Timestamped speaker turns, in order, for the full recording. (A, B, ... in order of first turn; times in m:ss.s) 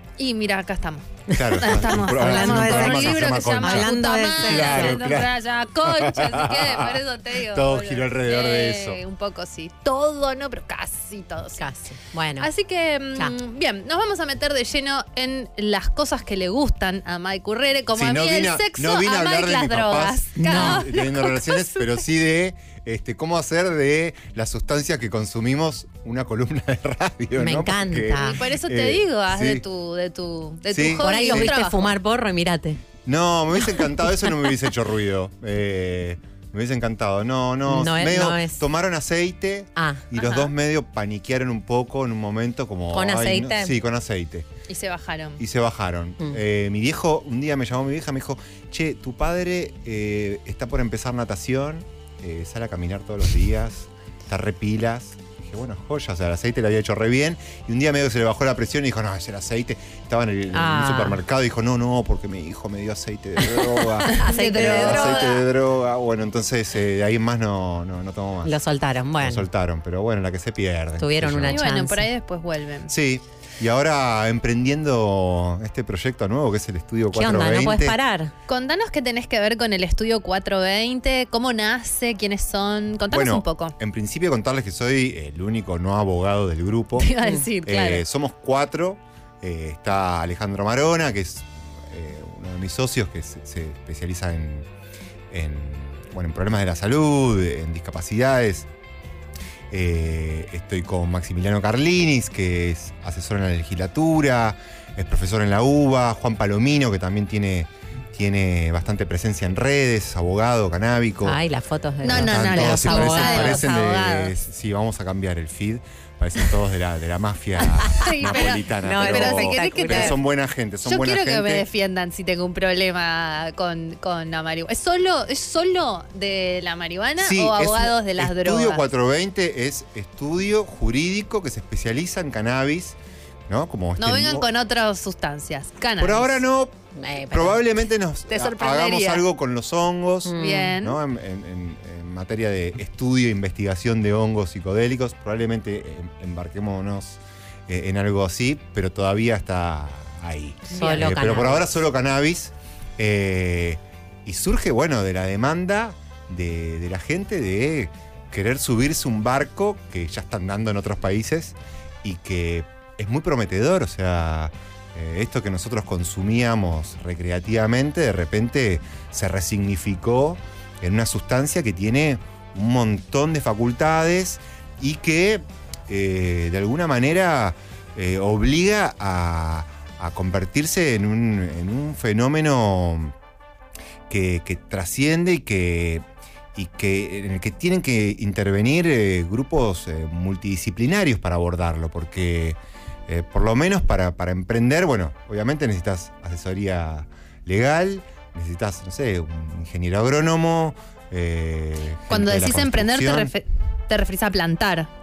0:00.2-0:11.6 A
0:01.3-0:05.1 B
0:01.4-0:05.3 C
0:05.9-0:07.0 C
0:07.5-0:09.0 C
0:11.6-0:12.5 B
0:12.4-0:21.8 A
0:17.9-0:29.6 C
0:20.4-0:20.9 B
0:27.4-0:28.4 B
0:28.2-0:31.9 A
0:30.7-0:31.6 C
0:31.0-0:32.8 B
0:33.0-0:44.5 C
0:33.6-0:34.4 B
0:37.6-0:38.6 B
0:39.8-0:40.1 B
0:40.2-0:40.5 A
0:42.9-0:43.8 B
0:44.7-0:45.4 A
0:45.4-1:08.5 C
1:00.5-1:01.2 B
1:03.8-1:05.4 B
1:04.1-1:05.4 A
1:08.4-1:09.4 B
1:09.2-1:11.7 C
1:11.0-1:12.0 B
1:11.5-1:12.9 A
1:12.9-1:18.0 C
1:17.1-1:18.3 B
1:18.5-1:23.7 A
1:23.1-1:27.1 C
1:27.0-1:28.0 A
1:27.6-1:34.7 C
1:35.3-1:38.7 C
1:39.7-1:51.4 C
1:51.2-1:53.6 B
1:52.0-1:54.3 A
1:52.0-2:01.6 C
1:57.6-2:00.2 A
1:58.2-2:00.2 B
2:00.8-2:08.8 A
2:07.2-2:13.0 C
2:13.5-2:14.5 C
2:14.0-2:16.4 A
2:16.0-3:03.1 C
2:16.9-2:17.6 B
2:18.3-2:19.2 A
2:20.2-2:20.8 B
2:20.3-2:21.0 A
2:30.7-2:31.2 A
2:30.7-2:31.7 B
3:04.1-3:06.0 C
3:06.5-3:23.3 C
3:22.1-3:24.9 A